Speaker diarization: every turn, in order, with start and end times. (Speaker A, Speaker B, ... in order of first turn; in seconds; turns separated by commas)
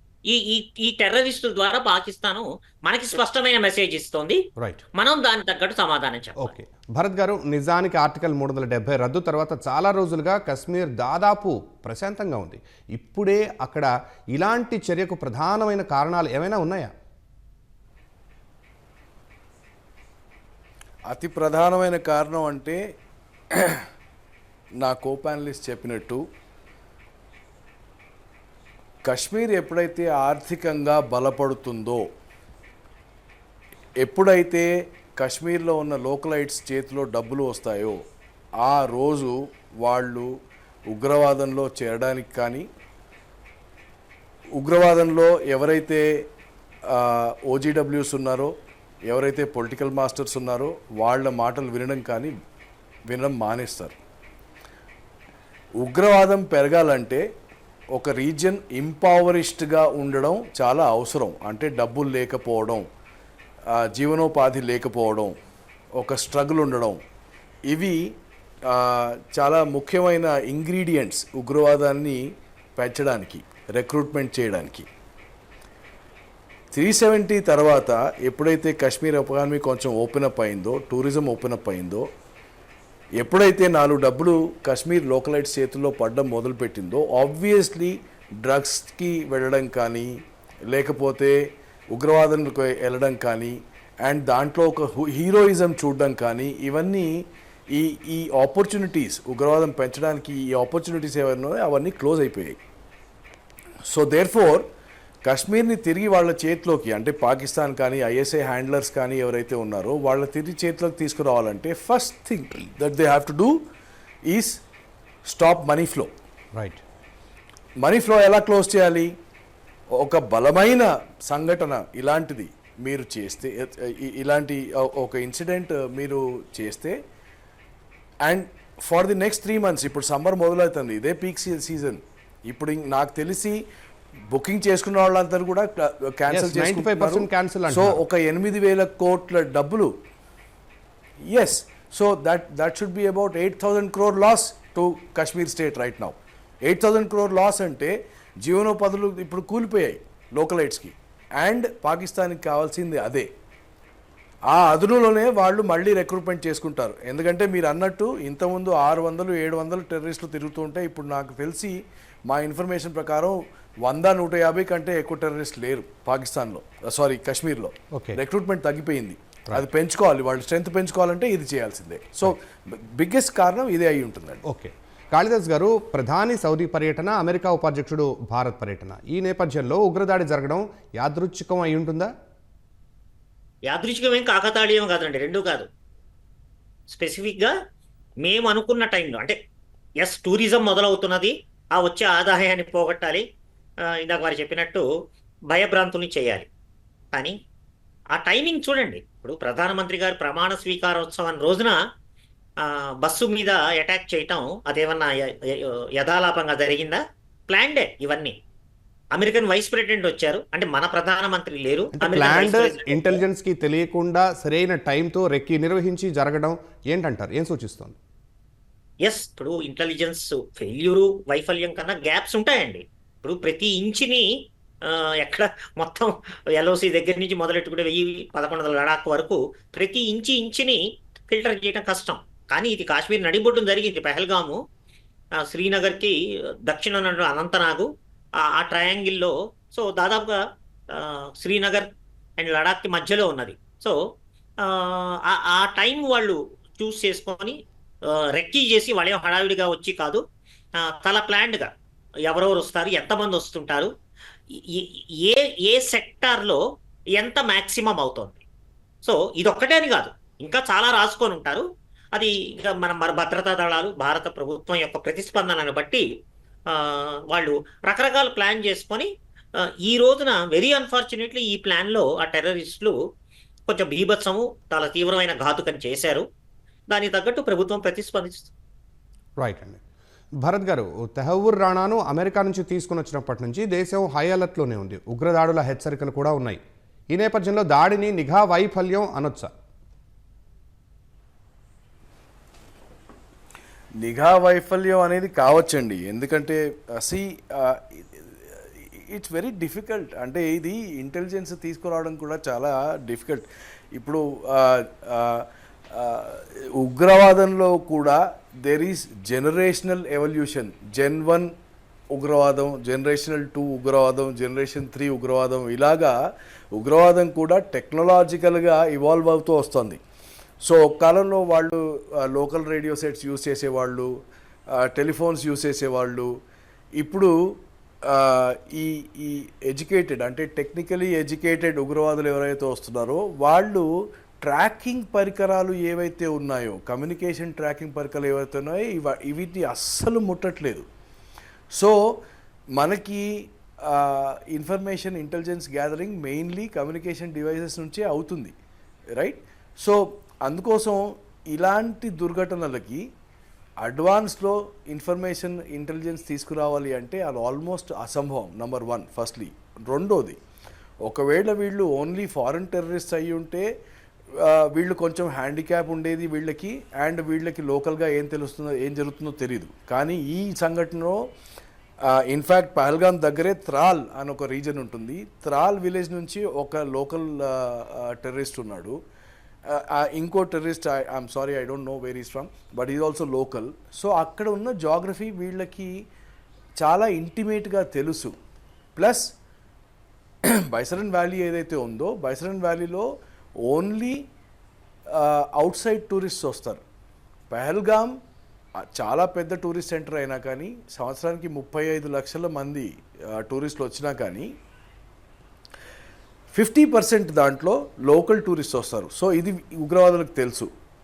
Speaker A: 0.3-4.4, Speaker B: 4.6-4.8, Speaker A: 5.0-6.5, Speaker B: 6.4-16.9, Speaker C: 21.1-22.8, Speaker C: 23.5-23.9, Speaker C: 24.8-26.2, Speaker C: 29.0-32.1, Speaker C: 34.0-38.0, Speaker C: 38.6-40.3, Speaker C: 40.9-42.6, Speaker C: 44.5-46.2, Speaker C: 46.9-48.5, Speaker C: 49.1-52.3, Speaker C: 53.1-54.0, Speaker C: 55.8-57.2, Speaker C: 57.9-62.8, Speaker C: 63.7-65.3, Speaker C: 66.0-67.0, Speaker C: 67.7-68.1, Speaker C: 68.7-72.2, Speaker C: 72.8-74.9, Speaker C: 76.7-82.0, Speaker C: 83.2-90.2, Speaker C: 90.7-91.4, Speaker C: 91.9-102.6, Speaker C: 103.9-104.6, Speaker C: 105.2-113.6, Speaker C: 114.3-114.6, Speaker C: 115.2-116.1, Speaker B: 116.5-116.8, Speaker C: 117.8-119.1, Speaker C: 119.9-127.0, Speaker C: 128.2-133.6, Speaker C: 134.3-139.9, Speaker B: 136.3-138.0, Speaker C: 141.2-153.3, Speaker C: 154.5-174.4, Speaker B: 167.9-168.2, Speaker B: 174.4-182.1, Speaker A: 183.7-185.7, Speaker A: 186.9-187.5, Speaker A: 188.2-189.4, Speaker A: 190.0-193.2, Speaker A: 193.9-194.8, Speaker A: 195.5-196.5, Speaker A: 198.1-201.8, Speaker A: 202.6-208.3, Speaker A: 209.1-213.2, Speaker B: 211.9-218.0, Speaker A: 219.0-224.3, Speaker A: 224.8-234.6, Speaker A: 235.4-236.1, Speaker A: 236.7-240.4, Speaker A: 240.9-241.9, Speaker A: 242.4-244.0, Speaker A: 244.6-247.6, Speaker A: 248.3-250.2, Speaker A: 250.8-251.7, Speaker A: 252.3-253.9, Speaker A: 254.5-256.6, Speaker A: 257.2-258.4, Speaker A: 259.0-261.6, Speaker A: 262.1-266.0, Speaker A: 266.7-272.9, Speaker A: 273.7-276.2, Speaker A: 276.9-278.5, Speaker B: 279.4-279.8, Speaker B: 280.4-286.6, Speaker B: 287.1-289.5, Speaker C: 294.0-311.5, Speaker C: 312.1-316.1, Speaker C: 316.7-320.0, Speaker C: 320.6-324.1, Speaker C: 324.7-326.3, Speaker C: 327.0-327.3, Speaker C: 328.0-333.9, Speaker C: 334.4-340.8, Speaker C: 341.7-342.2, Speaker C: 342.8-348.5, Speaker C: 349.1-353.0, Speaker C: 353.8-360.4, Speaker C: 361.0-363.7, Speaker C: 364.3-371.2, Speaker C: 372.0-378.9, Speaker C: 379.7-386.0, Speaker C: 386.8-388.3, Speaker C: 388.9-389.3, Speaker C: 390.4-393.1, Speaker C: 393.6-394.2, Speaker C: 395.1-396.8, Speaker C: 397.5-398.1, Speaker C: 398.8-404.5, Speaker C: 406.5-410.7